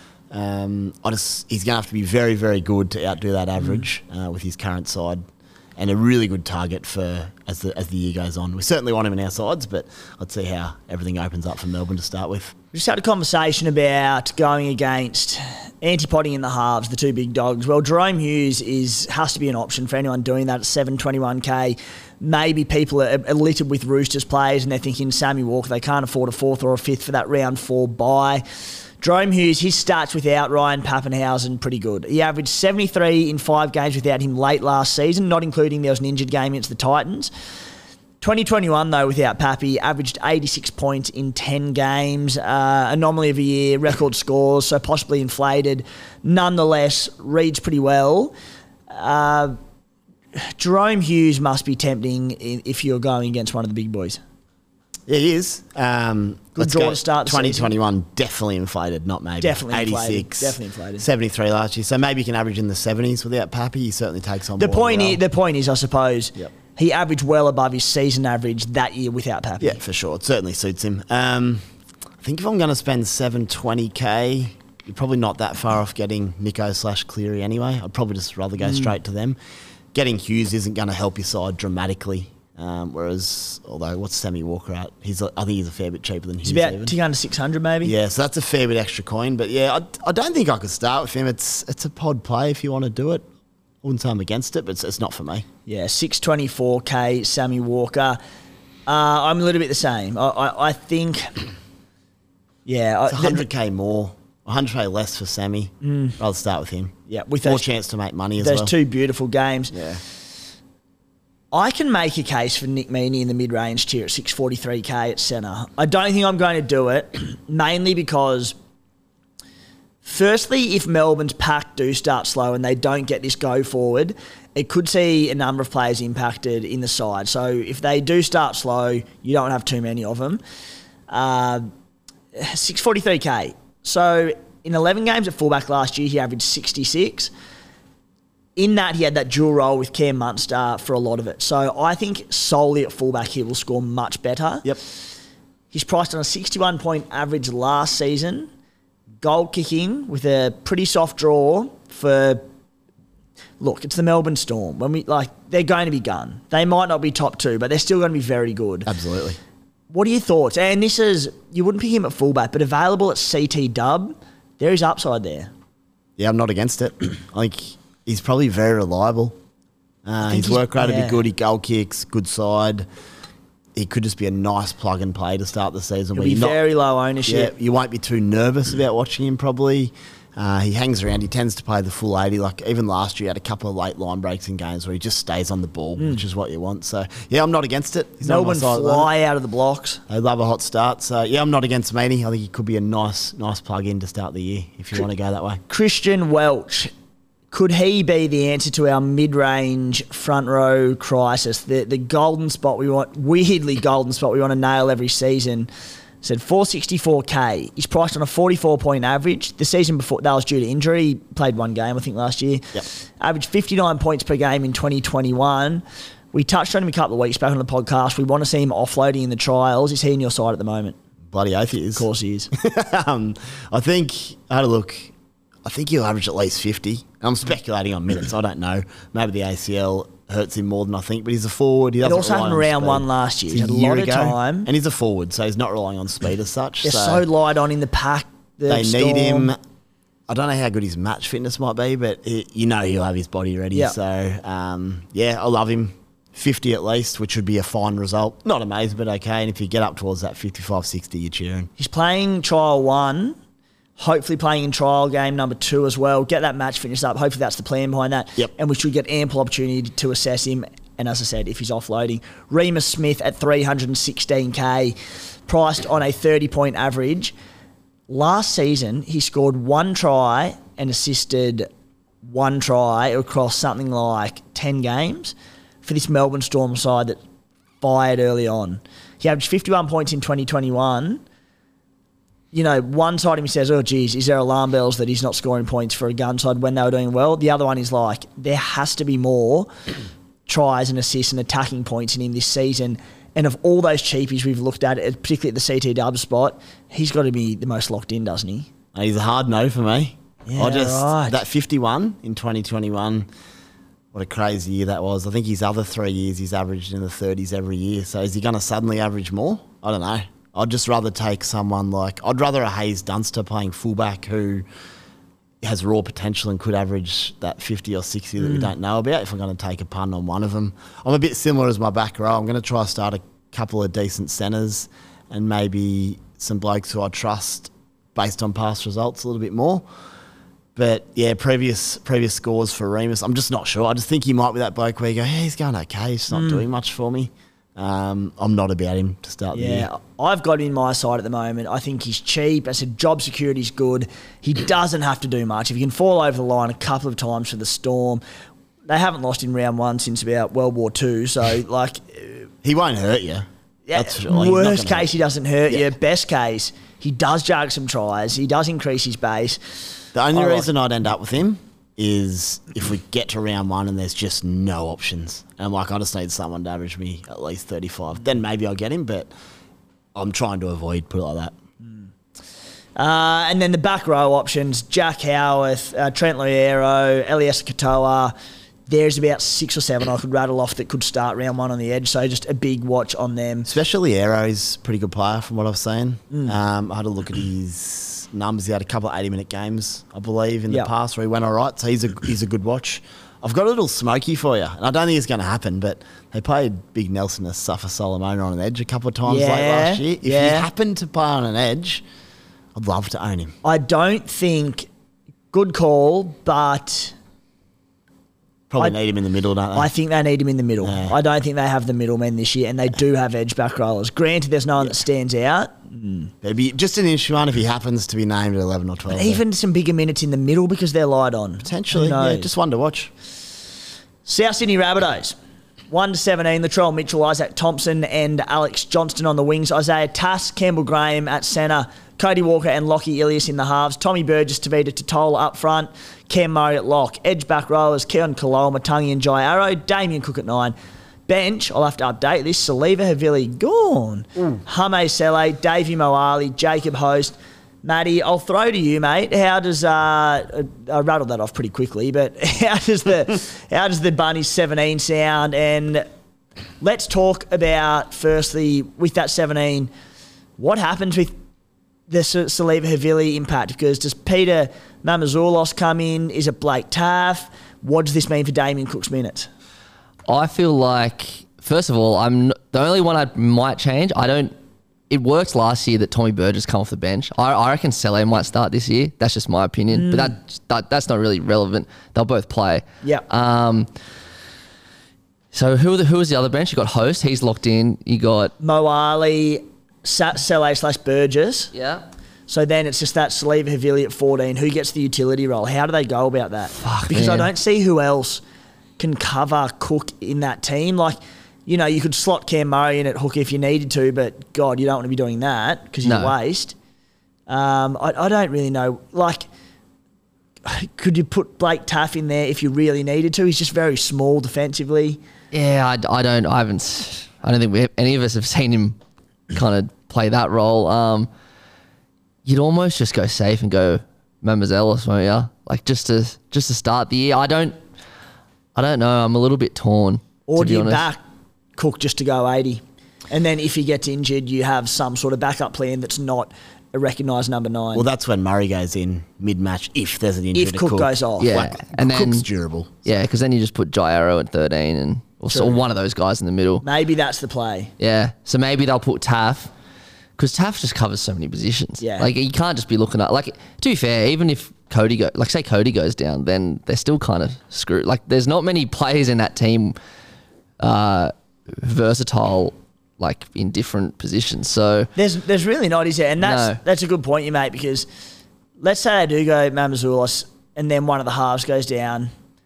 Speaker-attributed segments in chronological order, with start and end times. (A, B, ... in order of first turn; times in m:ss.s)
0:00.3-0:05.2 A
0:05.8-0:12.5 A
0:12.7-0:28.4 B
0:29.0-0:37.3 B
0:38.2-0:48.3 B
0:48.9-0:49.6 B
0:50.4-0:54.2 B
0:55.1-1:05.2 A
0:56.6-0:57.7 B
0:59.4-1:01.0 B
1:04.6-1:09.8 B
1:09.6-1:11.7 A
1:12.2-1:19.4 A
1:18.6-1:18.9 B
1:19.9-1:26.9 A
1:26.4-1:27.9 B
1:27.8-1:33.2 A
1:33.8-1:35.4 A
1:35.7-1:38.2 B
1:38.9-1:41.3 B
1:42.6-1:43.4 B
1:43.1-1:48.7 A
1:45.8-1:46.2 B
1:47.1-1:47.6 B
1:48.4-1:49.7 B
1:49.7-1:50.0 A
1:51.5-1:58.6 B
2:00.0-2:10.4 B
2:11.1-2:11.7 B
2:12.3-2:17.3 B
2:18.6-2:24.7 B
2:25.7-2:28.5 B
2:29.2-2:32.4 B
2:33.6-2:38.9 B
2:38.8-2:39.4 A
2:39.9-2:45.5 B
2:46.2-2:49.4 A
2:50.0-2:52.8 A
2:50.3-2:51.2 B
2:53.7-2:56.6 A
2:56.1-2:57.5 B
2:57.2-3:09.1 A
3:08.2-3:10.0 B
3:10.1-3:15.6 A
3:15.7-3:16.9 B
3:17.5-3:25.7 B
3:26.2-3:41.0 B
3:41.3-3:45.1 A
3:42.0-3:42.5 B
3:45.6-3:57.2 A
3:52.0-3:54.7 B
3:56.8-3:59.5 B
3:58.7-3:59.6 A
4:00.3-4:11.7 A
4:11.8-4:13.4 B
4:14.0-4:25.0 B
4:25.5-4:27.3 B
4:28.1-4:31.7 B
4:32.2-4:37.2 B
4:37.8-4:41.2 B
4:42.5-4:49.7 B
4:50.5-4:58.7 B
4:58.9-5:03.3 A
5:00.4-5:01.4 B
5:04.1-5:14.6 A
5:15.6-5:29.8 A
5:18.4-5:18.7 B
5:30.8-5:39.9 A
5:36.3-5:36.6 B
5:39.5-5:48.2 B
5:48.9-5:52.5 B
5:52.6-5:55.1 A
5:53.9-5:59.6 B
6:00.1-6:09.3 A
6:00.3-6:00.7 B
6:10.1-6:11.5 A
6:13.0-6:18.3 B
6:18.9-6:23.7 B
6:23.6-6:42.0 A
6:39.2-6:40.7 B
6:42.7-6:43.5 A
6:43.6-6:44.9 B
6:45.5-6:47.1 B
6:48.7-6:49.9 A
6:49.7-6:56.3 B
6:50.8-6:51.1 A
6:56.4-6:59.4 A
6:59.1-7:02.5 B
7:01.6-7:03.1 A
7:04.2-7:05.4 B
7:05.9-7:20.7 B
7:21.3-7:36.0 B
7:36.8-7:39.9 B
7:40.6-7:41.3 B
7:42.1-7:49.5 B
7:50.2-7:54.5 C
7:55.1-8:03.9 C
7:59.9-8:00.4 B
8:05.5-8:08.5 C
8:08.6-8:11.7 B
8:11.7-8:12.0 C
8:12.5-8:18.4 B
8:16.8-8:17.5 C
8:19.0-8:26.7 B
8:26.0-8:26.3 C
8:27.5-8:29.5 B
8:30.6-8:35.2 B
8:35.5-8:39.0 C
8:39.5-8:41.3 C
8:42.4-8:47.8 C
8:48.7-8:51.0 C
8:50.5-8:51.2 B
8:51.8-8:58.0 B
8:57.9-9:03.0 A
9:00.5-9:01.6 B
9:01.4-9:02.4 C
9:03.0-9:06.8 C
9:05.5-9:05.8 B
9:06.8-9:07.9 B
9:08.0-9:09.7 C
9:10.4-9:19.9 C
9:12.0-9:12.3 B
9:20.8-9:25.1 C
9:25.2-9:28.1 B
9:26.4-9:26.8 C
9:28.8-9:32.3 B